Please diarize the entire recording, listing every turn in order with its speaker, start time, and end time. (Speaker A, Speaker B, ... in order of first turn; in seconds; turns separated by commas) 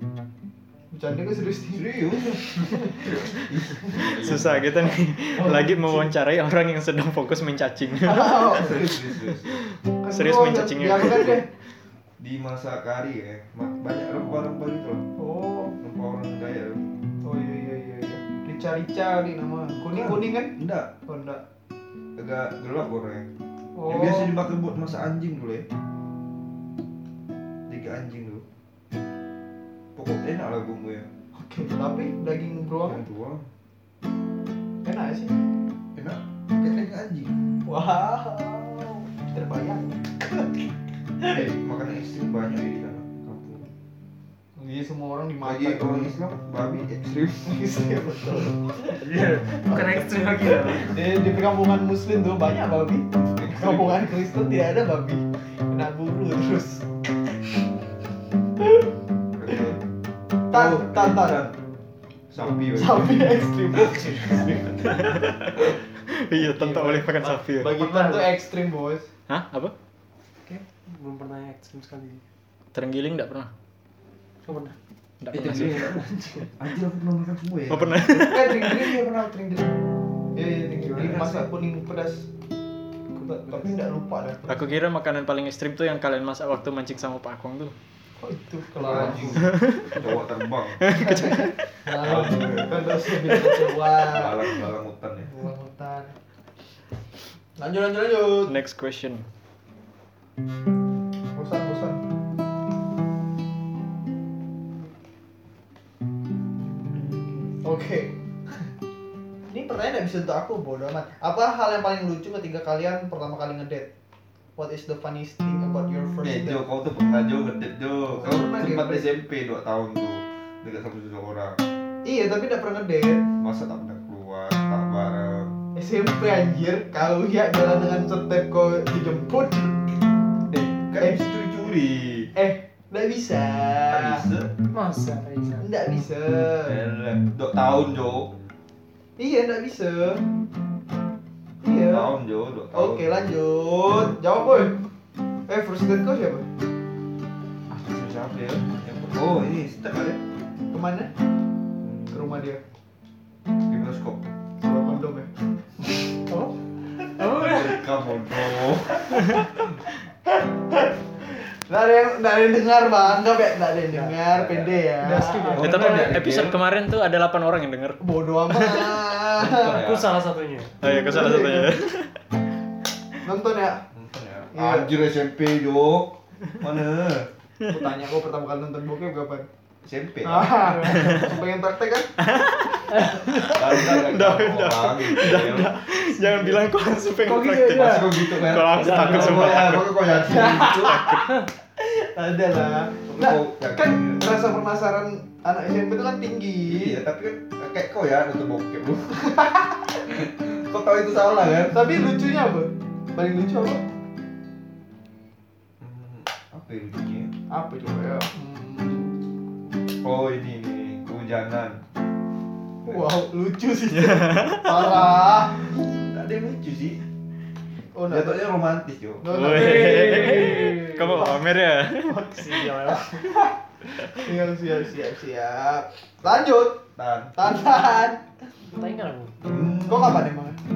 Speaker A: 0.9-4.2, Speaker B: 1.7-4.7, Speaker C: 4.0-11.4, Speaker A: 5.3-6.1, Speaker A: 8.0-8.8, Speaker B: 8.5-9.6, Speaker A: 10.0-11.5, Speaker B: 12.2-15.0, Speaker A: 15.2-15.7, Speaker B: 15.8-16.8, Speaker A: 17.2-20.5, Speaker B: 19.8-20.9, Speaker A: 21.1-21.4, Speaker B: 22.1-23.2, Speaker A: 23.8-24.3, Speaker B: 23.9-25.6, Speaker B: 27.7-28.4, Speaker B: 29.9-31.1, Speaker A: 31.3-33.0, Speaker B: 32.8-33.5, Speaker A: 34.8-35.4, Speaker B: 35.9-37.3, Speaker A: 37.6-40.6, Speaker B: 41.2-43.7, Speaker A: 44.6-46.1, Speaker B: 45.4-47.6, Speaker A: 47.5-49.0, Speaker D: 48.9-51.0, Speaker A: 50.7-56.8, Speaker B: 53.2-54.1, Speaker B: 59.3-59.8, Speaker A: 60.5-61.4, Speaker B: 60.5-61.5, Speaker B: 62.3-63.3, Speaker A: 62.7-65.1, Speaker C: 64.8-67.8, Speaker A: 66.5-69.1, Speaker D: 67.7-68.3, Speaker C: 69.3-69.7, Speaker D: 70.5-72.2, Speaker C: 72.7-73.5, Speaker D: 74.5-74.7, Speaker C: 75.2-76.0, Speaker B: 75.3-78.2, Speaker C: 77.7-79.0, Speaker A: 78.2-79.8, Speaker A: 80.3-82.3, Speaker B: 80.9-81.5, Speaker A: 83.2-84.6, Speaker C: 84.5-87.7, Speaker A: 88.2-89.5, Speaker B: 88.8-90.8, Speaker C: 89.3-89.9, Speaker C: 90.8-91.7, Speaker A: 90.9-94.4, Speaker B: 92.0-92.9, Speaker C: 93.3-93.5, Speaker B: 94.1-95.3, Speaker A: 95.2-96.1, Speaker A: 97.6-98.5, Speaker C: 98.5-99.2, Speaker A: 101.3-102.0, Speaker A: 107.6-108.1, Speaker A: 109.5-113.9, Speaker A: 114.6-116.6, Speaker B: 116.2-121.6, Speaker A: 118.2-119.0, Speaker A: 122.0-123.3, Speaker B: 123.4-125.5, Speaker A: 125.7-130.0, Speaker B: 130.5-132.3, Speaker A: 132.3-134.2, Speaker B: 133.9-134.5, Speaker D: 134.7-135.7, Speaker A: 135.6-136.8, Speaker B: 136.6-138.3, Speaker A: 139.2-140.2, Speaker A: 141.6-142.1, Speaker B: 141.8-143.1, Speaker A: 142.7-144.8, Speaker A: 145.5-146.4, Speaker B: 147.7-150.2, Speaker A: 150.7-151.1, Speaker B: 151.8-152.2, Speaker A: 152.1-152.6, Speaker B: 153.7-154.3, Speaker A: 154.6-155.3, Speaker D: 157.2-157.7, Speaker B: 157.2-159.4, Speaker A: 160.7-165.5, Speaker B: 164.2-166.6, Speaker D: 165.0-166.0, Speaker C: 165.6-169.0, Speaker A: 168.0-169.8, Speaker B: 169.3-170.1, Speaker D: 169.5-170.7, Speaker C: 170.8-172.1, Speaker A: 170.8-171.7, Speaker A: 173.2-173.8, Speaker B: 173.9-177.3, Speaker A: 174.5-174.9, Speaker A: 177.7-179.4, Speaker B: 179.8-180.9, Speaker A: 180.2-182.1, Speaker C: 180.9-181.3, Speaker C: 182.2-191.4, Speaker B: 183.3-185.8, Speaker D: 187.2-188.0, Speaker B: 187.7-191.2, Speaker A: 189.2-189.5, Speaker A: 190.2-196.9, Speaker B: 193.1-194.3, Speaker B: 196.7-201.9, Speaker A: 201.7-203.8, Speaker B: 205.8-207.3, Speaker A: 207.5-209.1, Speaker B: 210.0-211.8, Speaker A: 212.8-215.6, Speaker C: 213.9-214.9, Speaker B: 215.9-217.0, Speaker A: 217.9-218.3, Speaker B: 218.1-219.7, Speaker A: 219.2-221.3, Speaker C: 219.2-222.3, Speaker D: 219.6-221.3, Speaker D: 222.1-223.3, Speaker A: 222.6-223.4, Speaker A: 224.1-226.8, Speaker B: 226.9-227.3, Speaker A: 227.3-228.2, Speaker D: 228.7-229.3, Speaker B: 229.4-230.3, Speaker A: 229.9-230.6